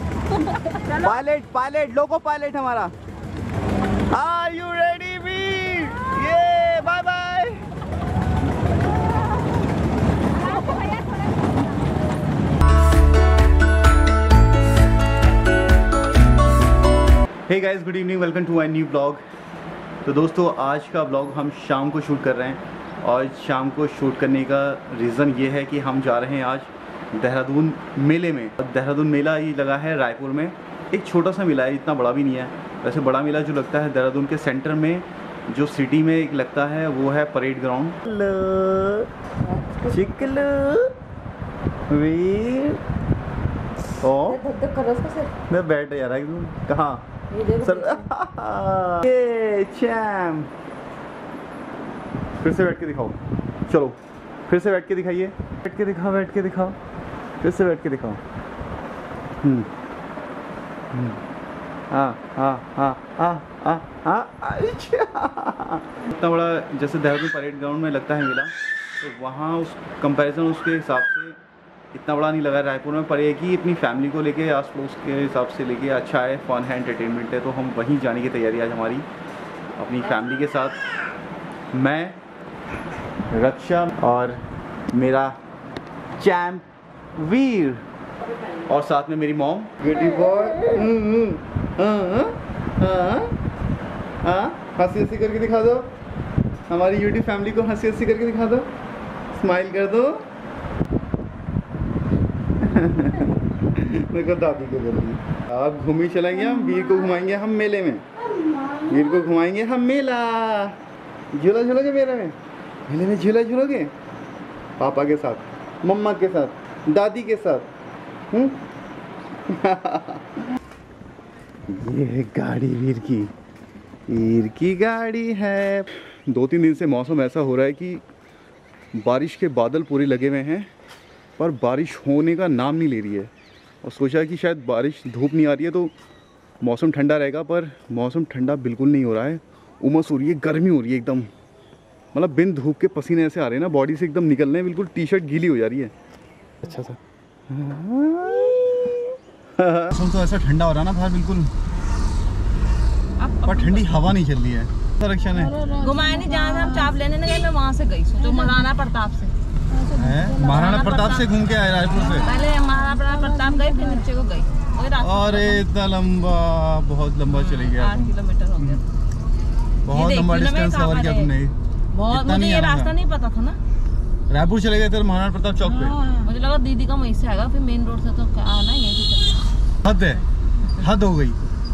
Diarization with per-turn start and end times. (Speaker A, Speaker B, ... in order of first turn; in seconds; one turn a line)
Speaker A: 0.4-0.8
Speaker B: 0.9-2.9
Speaker B: 4.1-7.6
Speaker A: 10.5-11.6
Speaker B: 17.5-19.2
Speaker B: 20.0-39.1
Speaker B: 39.9-40.9
Speaker B: 41.9-42.8
Speaker B: 44.0-44.5
Speaker A: 44.5-45.3
Speaker B: 45.5-50.5
Speaker B: 52.4-53.2
Speaker B: 53.7-56.8
Speaker B: 57.4-58.2
Speaker B: 59.4-59.7
Speaker B: 60.9-61.2
Speaker B: 61.9-71.4
Speaker B: 71.9-79.0
Speaker B: 79.8-80.8
Speaker B: 81.7-82.2
Speaker B: 83.3-84.4
Speaker B: 84.9-85.3
Speaker B: 86.2-86.7
Speaker B: 87.2-87.8
Speaker B: 88.7-93.3
Speaker B: 94.2-95.9
Speaker B: 96.7-98.7
Speaker B: 99.3-100.2
Speaker B: 102.6-108.0
Speaker B: 108.8-110.8
Speaker B: 111.3-112.3
Speaker B: 112.9-113.9
Speaker B: 114.8-117.7
Speaker B: 118.3-118.6
Speaker B: 119.5-120.3
Speaker B: 121.7-123.3
Speaker B: 124.1-128.0
Speaker B: 128.9-130.7
Speaker B: 131.4-133.3
Speaker B: 133.8-135.9
Speaker B: 136.6-141.3
Speaker B: 142.1-145.9
Speaker B: 146.6-147.0
Speaker B: 147.5-151.5
Speaker A: 153.2-153.9
Speaker B: 153.4-155.6
Speaker A: 155.7-159.3
Speaker B: 159.9-162.3
Speaker A: 160.4-161.3
Speaker A: 162.1-165.6
Speaker B: 165.0-168.8
Speaker A: 167.3-168.8
Speaker B: 169.8-171.5
Speaker A: 169.9-171.3
Speaker A: 171.9-173.6
Speaker B: 172.1-172.9
Speaker B: 174.3-176.0
Speaker A: 175.7-179.5
Speaker B: 179.8-180.2
Speaker B: 180.8-181.4